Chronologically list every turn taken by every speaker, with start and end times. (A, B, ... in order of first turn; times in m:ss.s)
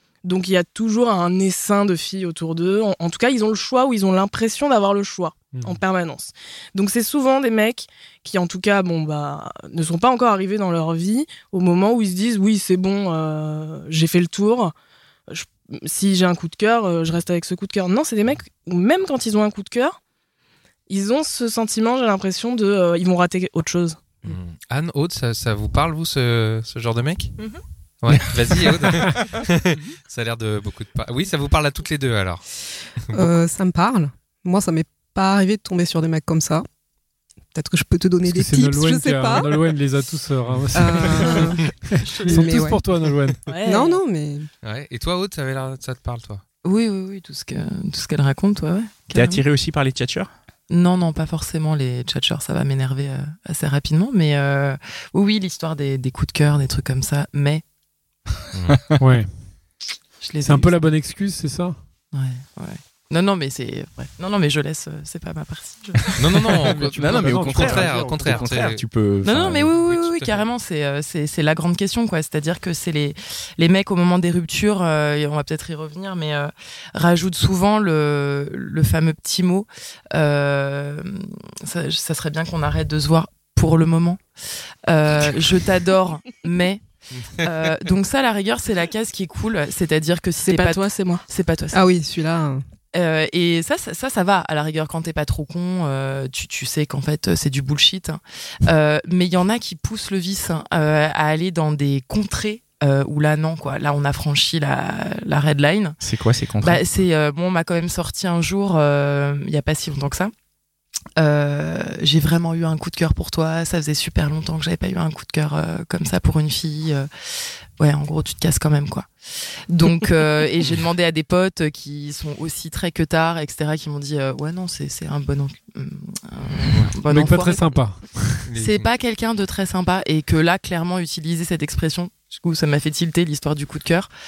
0:00.2-0:14.7 A
0:05.5-0:05.8 B
0:15.3-0:20.0 A
0:20.9-0:24.0 A
0:24.2-0:27.4 C
0:28.0-0:32.4 C
0:33.0-0:33.3 C
0:33.1-0:36.6 D
0:37.5-0:39.5 D
0:38.2-0:43.4 B
0:40.7-0:41.7 D
0:42.1-0:42.6 E
0:42.3-0:42.8 D
0:43.5-0:44.0 A
0:43.6-0:44.5 D
0:44.6-0:46.4 C
0:46.6-0:49.4 E
0:49.1-0:50.3 F
0:50.7-0:57.6 E
0:58.5-0:59.0 C
0:59.0-0:59.3 B
1:00.2-1:00.8 E
1:00.4-1:01.8 B
1:02.1-1:06.1 E
1:06.0-1:10.0 F
1:06.2-1:08.8 C
1:06.6-1:08.6 B
1:09.2-1:24.2 E
1:09.8-1:10.4 C
1:24.8-1:26.8 E
1:27.4-1:31.8 E
1:30.4-1:31.2 A
1:31.7-1:32.6 D
1:32.9-1:46.0 E
1:46.0-1:46.8 F
1:46.6-1:50.3 E
1:51.2-2:07.8 E
2:06.7-2:06.9 C
2:07.1-2:08.5 B
2:08.5-2:08.9 C
2:08.6-2:14.1 E